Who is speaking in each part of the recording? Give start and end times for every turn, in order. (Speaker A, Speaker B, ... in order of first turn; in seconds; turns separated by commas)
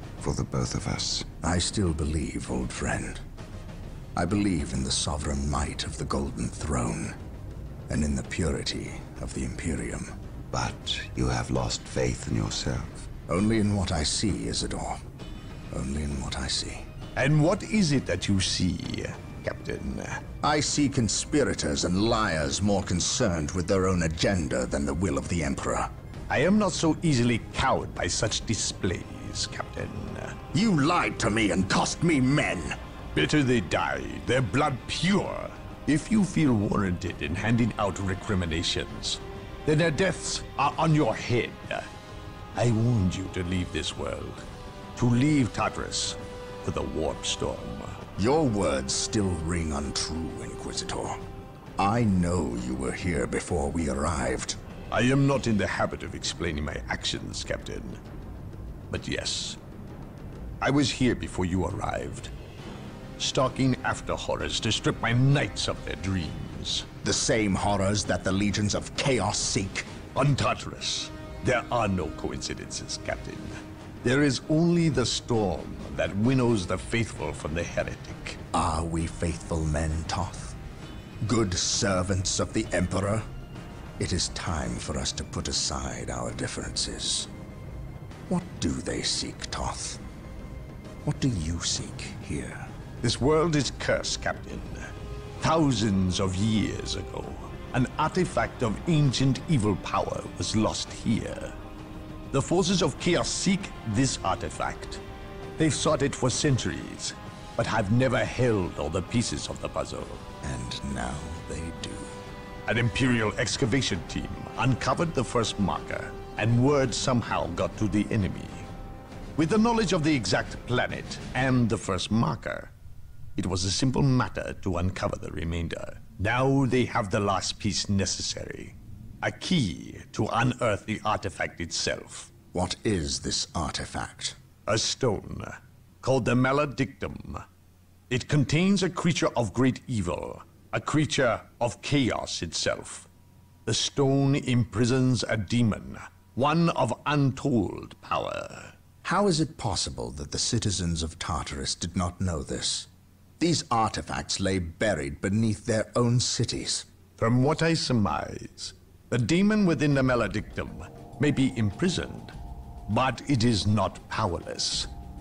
Speaker A: 0.2-1.3, Speaker B: 1.4-3.2, Speaker B: 4.2-7.2, Speaker B: 7.9-10.1, Speaker A: 10.5-13.1, Speaker B: 13.3-15.0, Speaker B: 15.7-16.9, Speaker C: 17.2-20.2, Speaker B: 20.4-25.9, Speaker C: 26.3-30.4, Speaker B: 30.5-32.8, Speaker C: 33.1-41.9, Speaker C: 42.6-44.4, Speaker C: 45.0-48.0, Speaker B: 48.2-51.2, Speaker B: 51.8-54.6, Speaker C: 54.9-58.0, Speaker C: 58.9-59.6, Speaker C: 60.6-62.3, Speaker C: 63.2-66.9, Speaker B: 67.0-69.9, Speaker C: 70.1-78.4, Speaker B: 78.5-80.6, Speaker B: 81.2-83.3, Speaker B: 84.0-87.3, Speaker B: 88.3-90.0, Speaker B: 91.0-92.7, Speaker C: 93.0-94.9, Speaker C: 95.4-101.5, Speaker C: 102.3-105.0, Speaker C: 105.6-110.2, Speaker B: 110.4-112.1, Speaker C: 112.7-118.7, Speaker C: 119.4-122.7, Speaker C: 123.4-132.3, Speaker B: 132.5-134.4, Speaker C: 134.7-137.4, Speaker C: 138.1-143.1, Speaker C: 143.7-148.8, Speaker B: 149.0-156.9, Speaker C: 157.2-162.3, Speaker C: 162.9-164.9